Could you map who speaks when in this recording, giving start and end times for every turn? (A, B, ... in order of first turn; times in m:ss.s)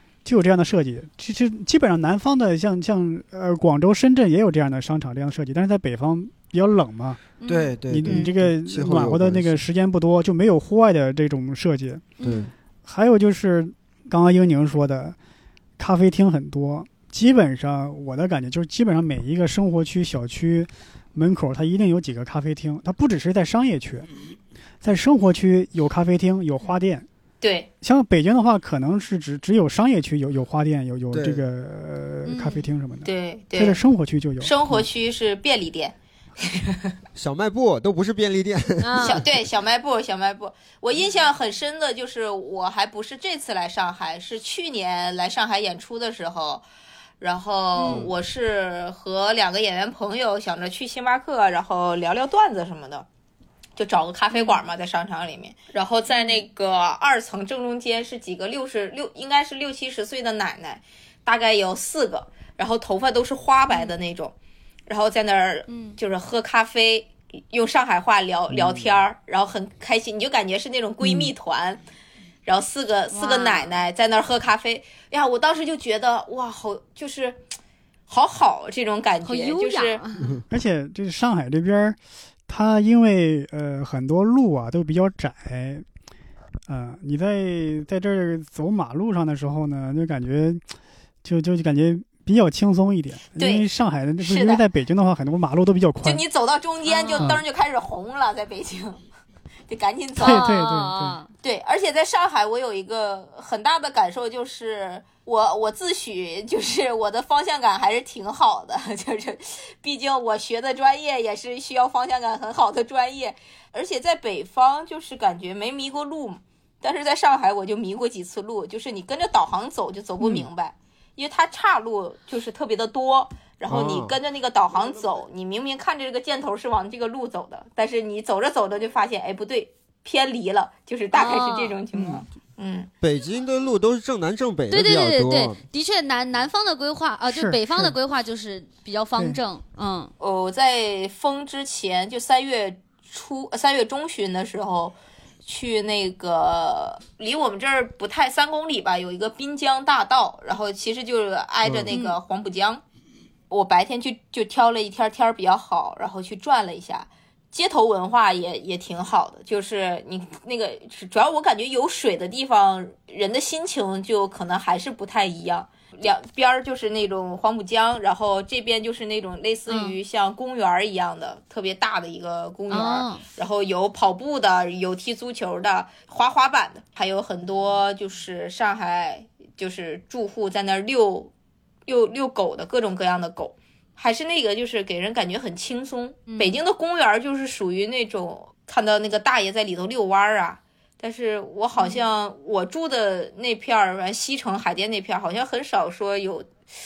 0:00.2-0:07.2 A
0:07.4-0:07.7 B
0:07.5-0:09.6 C
0:07.9-0:12.1 A
0:08.0-0:08.3 D
0:12.2-0:12.5 B
0:12.2-0:12.5 C
0:12.8-0:15.2 A
0:15.8-0:24.1 A
0:24.8-0:27.0 A
0:27.4-0:27.7 D
0:27.8-0:34.5 A
0:31.1-0:31.4 C
0:32.2-0:32.7 B
0:33.0-0:33.8 D
0:34.4-0:36.9 D
0:37.1-0:39.0 C
0:38.8-0:39.2 B
0:39.0-0:46.6 D
0:47.2-0:53.0 D
0:47.7-0:48.1 B
0:53.8-1:04.3 D
0:54.3-0:54.6 B
0:56.1-0:56.4 B
1:03.7-1:03.9 B
1:04.9-1:11.8 D
1:05.7-1:06.0 B
1:08.5-1:08.9 C
1:11.0-1:11.3 A
1:12.4-1:17.4 D
1:13.1-1:13.8 B
1:18.1-1:20.0 D
1:19.2-1:20.3 B
1:20.2-1:20.4 C
1:20.5-1:25.8 A
1:26.7-1:30.6 A
1:31.2-1:36.2 A
1:33.4-1:33.6 D
1:34.2-1:34.6 D
1:36.0-1:39.0 D
1:36.8-1:37.3 B
1:39.7-1:40.5 D
1:40.2-1:41.2 A
1:40.2-1:41.3 B
1:41.4-2:12.9 D
2:03.7-2:04.1 C
2:11.1-2:11.8 B
2:11.9-2:12.2 A
2:13.0-2:15.6 C
2:14.7-2:20.1 B
2:17.3-2:17.9 A
2:20.2-2:32.8 D
2:31.6-2:31.9 C
2:31.9-2:32.2 B
2:33.5-3:01.3 D
2:49.7-2:50.0 B
2:52.7-2:53.2 B
3:01.9-3:16.5 D
3:06.3-3:06.6 B
3:11.8-3:12.1 B